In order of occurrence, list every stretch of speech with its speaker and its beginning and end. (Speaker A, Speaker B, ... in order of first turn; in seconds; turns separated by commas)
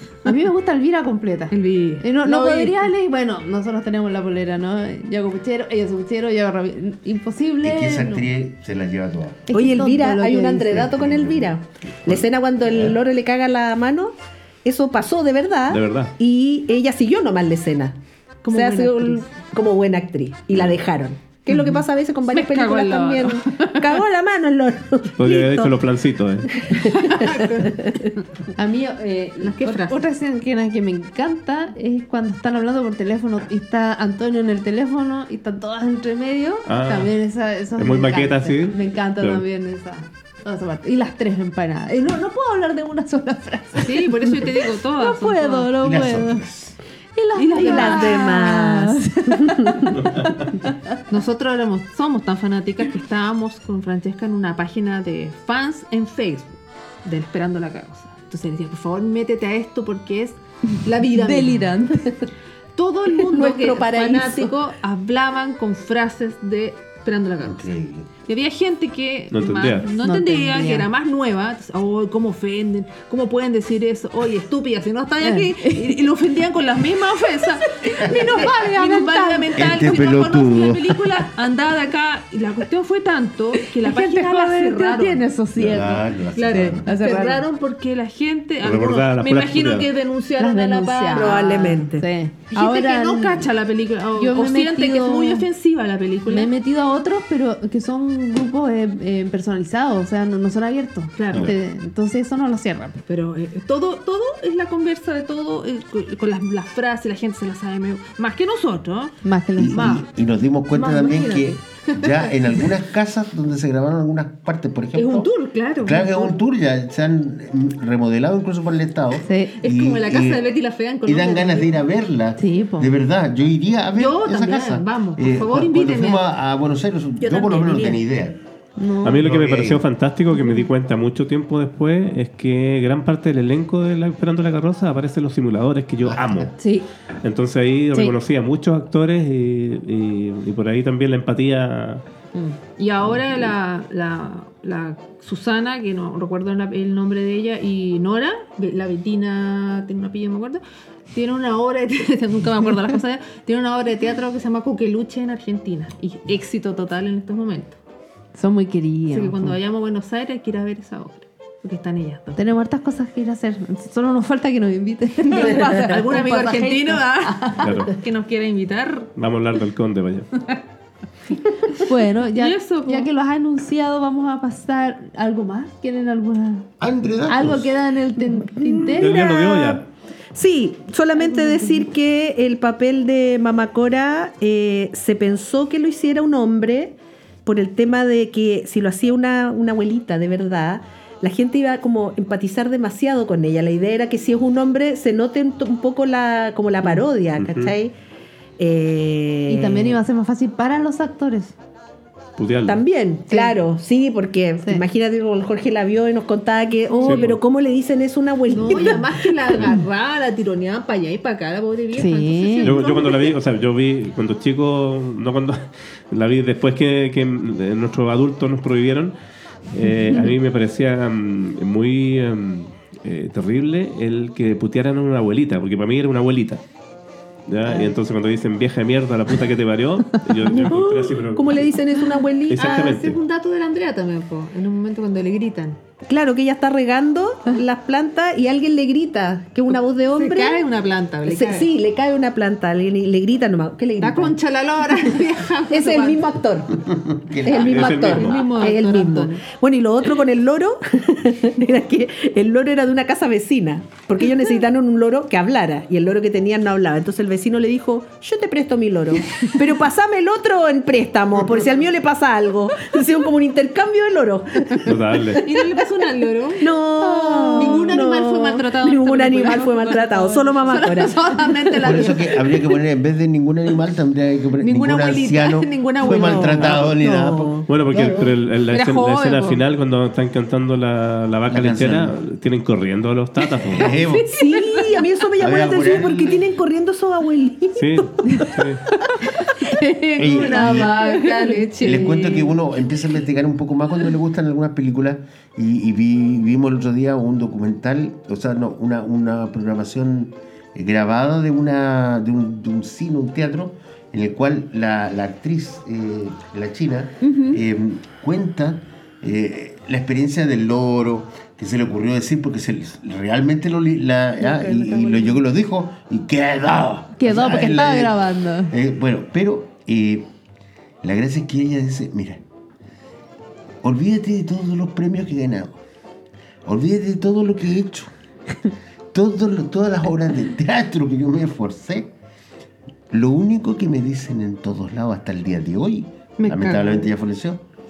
Speaker A: 0.2-8.3, Speaker B: 1.5-2.7, Speaker C: 7.6-9.5, Speaker A: 9.5-10.8, Speaker D: 9.5-14.1, Speaker C: 10.7-13.0, Speaker D: 14.7-18.0, Speaker E: 15.7-16.1, Speaker B: 18.4-19.3, Speaker D: 18.5-25.8, Speaker B: 22.3-24.0, Speaker E: 25.2-26.5, Speaker D: 26.5-27.9, Speaker B: 26.9-27.8, Speaker A: 28.6-46.5, Speaker B: 29.4-30.0, Speaker E: 36.7-37.1, Speaker E: 37.8-39.4, Speaker B: 43.8-45.7, Speaker C: 45.8-46.8, Speaker A: 47.1-50.8, Speaker B: 47.4-48.2, Speaker D: 47.6-49.9, Speaker E: 49.9-50.5, Speaker B: 51.1-61.7, Speaker A: 61.1-62.3, Speaker B: 62.8-67.7, Speaker D: 63.3-64.5, Speaker C: 67.4-68.1, Speaker B: 68.3-85.3, Speaker E: 69.3-69.9, Speaker A: 70.0-70.9, Speaker A: 75.2-76.0, Speaker A: 77.7-79.7, Speaker C: 79.6-81.1, Speaker A: 83.6-87.5, Speaker C: 85.6-86.8, Speaker B: 86.4-91.8, Speaker E: 88.6-89.9, Speaker A: 90.4-93.5, Speaker D: 91.1-92.1, Speaker B: 92.5-96.5, Speaker A: 94.2-95.5, Speaker A: 96.3-103.0, Speaker B: 101.2-101.5, Speaker B: 103.1-110.1, Speaker A: 109.2-110.0, Speaker C: 109.6-115.3, Speaker B: 110.7-112.7, Speaker B: 115.0-116.4, Speaker C: 115.8-120.4, Speaker A: 119.2-119.5, Speaker B: 119.6-121.8, Speaker C: 121.1-128.4, Speaker A: 122.4-122.9, Speaker B: 124.0-126.2, Speaker D: 127.2-128.0, Speaker A: 128.8-129.2, Speaker E: 129.0-136.5, Speaker C: 129.2-129.8, Speaker A: 130.3-130.7, Speaker A: 136.6-136.9, Speaker E: 137.2-142.0, Speaker B: 142.8-150.6, Speaker B: 151.1-157.8, Speaker A: 158.4-159.3, Speaker B: 159.1-162.4, Speaker A: 162.4-167.9, Speaker B: 165.3-169.1, Speaker E: 167.6-167.9, Speaker E: 169.2-170.3, Speaker B: 171.7-173.1, Speaker A: 171.8-176.7, Speaker C: 176.8-177.8, Speaker A: 177.3-179.8, Speaker E: 178.9-179.8, Speaker D: 179.0-179.8, Speaker D: 180.3-197.9, Speaker A: 181.2-181.9, Speaker E: 197.4-197.7, Speaker D: 198.6-200.0, Speaker A: 199.5-201.5, Speaker E: 202.4-202.8, Speaker D: 202.7-209.3, Speaker A: 203.3-203.6, Speaker B: 207.0-207.3, Speaker E: 207.0-207.4, Speaker B: 208.5-213.3, Speaker A: 208.5-209.0, Speaker A: 211.9-212.8, Speaker E: 212.6-219.2, Speaker E: 219.7-226.6, Speaker E: 227.5-231.7, Speaker D: 230.5-232.6, Speaker E: 232.5-233.2, Speaker B: 232.5-235.8, Speaker D: 236.1-240.6, Speaker B: 239.7-241.7, Speaker D: 241.3-244.3, Speaker B: 244.0-246.2, Speaker D: 245.7-246.8, Speaker C: 246.9-248.1, Speaker D: 247.4-265.8, Speaker E: 247.7-248.4, Speaker B: 248.1-249.4, Speaker E: 264.9-265.4, Speaker B: 265.4-266.6, Speaker D: 266.6-272.1, Speaker A: 267.0-267.9, Speaker B: 267.5-272.6, Speaker A: 269.8-270.9, Speaker C: 271.8-277.7, Speaker B: 274.6-276.8, Speaker D: 276.0-278.3, Speaker E: 277.7-283.9, Speaker B: 278.7-279.6, Speaker C: 281.5-282.2, Speaker C: 283.7-284.3, Speaker B: 283.8-285.1, Speaker D: 284.3-288.4, Speaker C: 285.4-286.4, Speaker E: 287.8-288.8, Speaker B: 290.0-292.4, Speaker A: 290.1-292.4, Speaker C: 290.2-291.0, Speaker C: 291.8-320.3, Speaker A: 307.2-307.6, Speaker D: 314.4-315.4, Speaker A: 317.2-318.7, Speaker C: 321.0-322.4, Speaker C: 323.8-325.8, Speaker C: 326.6-328.1, Speaker C: 329.1-332.1, Speaker C: 333.1-337.6, Speaker B: 336.4-337.1